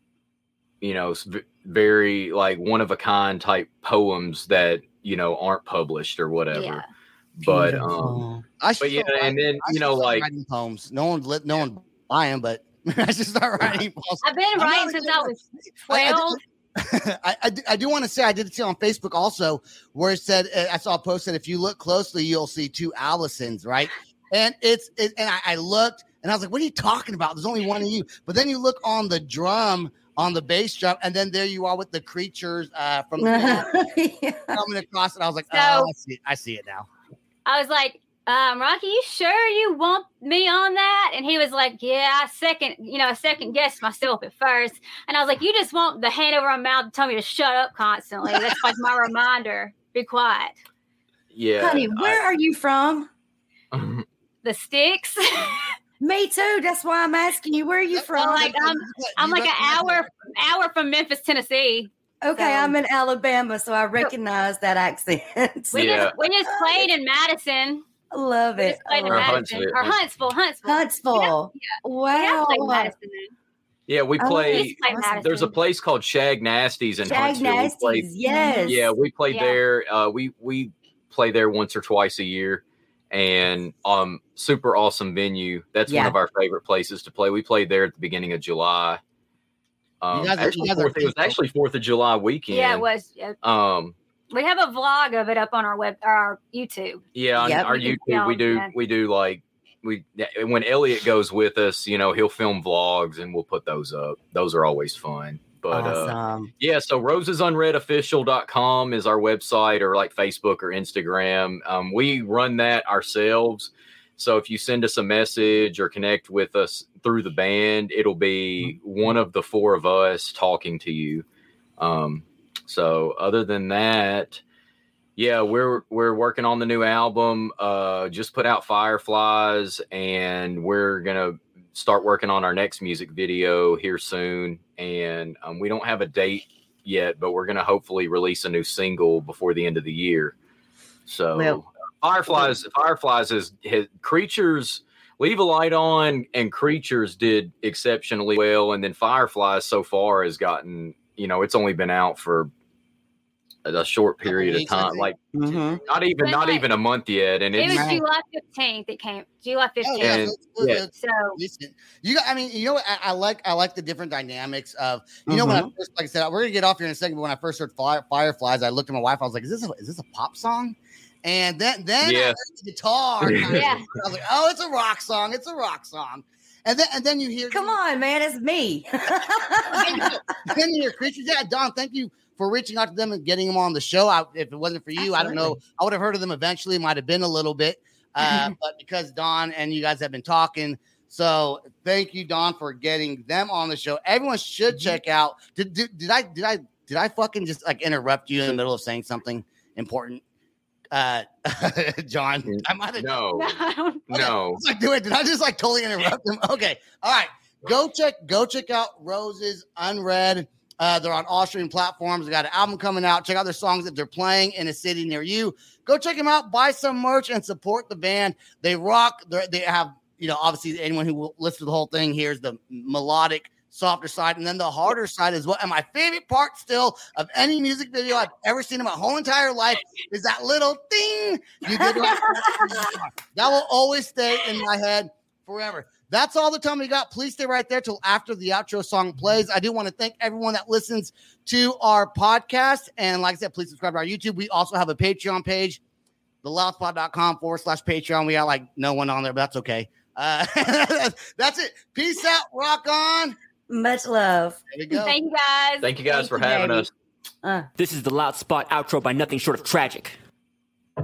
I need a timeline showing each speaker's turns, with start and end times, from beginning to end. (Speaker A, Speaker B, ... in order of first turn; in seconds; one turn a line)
Speaker A: 0.8-6.8
Speaker B: 6.5-6.9
Speaker A: 7.4-8.2
Speaker C: 7.4-8.4
Speaker D: 8.6-15.3
Speaker A: 8.8-10.3
Speaker B: 14.2-16.4
Speaker D: 15.9-33.7
Speaker C: 33.2-34.6
Speaker D: 34.5-36.9
Speaker B: 35.5-35.9
Speaker B: 37.5-50.6
Speaker A: 51.3-52.2
Speaker C: 51.6-53.1
Speaker A: 53.7-54.0
Speaker B: 54.4-55.7
Speaker C: 56.0-58.6
Speaker D: 57.9-60.0
Speaker B: 58.2-62.8
Speaker C: 62.2-66.9
Speaker B: 65.7-67.8
Speaker A: 65.7-66.2
Speaker C: 68.1-69.4
Speaker B: 68.6-73.3
Speaker A: 69.1-70.0
Speaker C: 70.7-72.9
Speaker A: 73.9-78.1
Speaker C: 74.2-75.2
Speaker B: 74.5-75.6
Speaker C: 77.0-78.9
Speaker B: 78.3-79.6
Speaker A: 78.7-89.0
Speaker C: 85.9-86.2
Speaker A: 90.0-92.8
Speaker D: 90.1-91.4
Speaker B: 92.5-93.4
Speaker A: 93.4-94.0
Speaker B: 94.3-97.0
Speaker A: 97.2-121.2
Speaker C: 97.4-97.7
Speaker B: 97.7-98.7
Speaker C: 105.7-106.5
Speaker A: 121.8-124.4
Speaker A: 125.2-140.3
Speaker A: 141.1-152.5
Speaker C: 141.3-141.6
Speaker A: 153.7-155.2
Speaker D: 154.3-155.8
Speaker C: 155.3-155.8
Speaker A: 155.9-157.9
Speaker B: 156.2-156.7
Speaker B: 157.6-160.2
Speaker D: 157.6-157.9
Speaker D: 159.8-177.8
Speaker A: 160.0-160.8
Speaker B: 160.9-161.4
Speaker C: 165.3-165.7
Speaker A: 172.0-172.4
Speaker A: 173.2-173.7
Speaker B: 173.5-173.9
Speaker C: 177.5-180.2
Speaker D: 179.7-200.2
Speaker C: 185.0-185.6
Speaker C: 188.2-188.5
Speaker D: 200.9-203.2
Speaker A: 202.5-203.5
Speaker B: 203.4-204.0
Speaker A: 204.1-204.6
Speaker D: 204.1-245.8
Speaker C: 231.7-232.9
Speaker D: 246.4-253.4
Speaker C: 253.7-254.6
Speaker D: 254.7-255.2
Speaker B: 254.9-255.9
Speaker A: 255.8-256.9
Speaker C: 256.1-256.9
Speaker C: 257.4-257.7
Speaker E: 257.8-260.2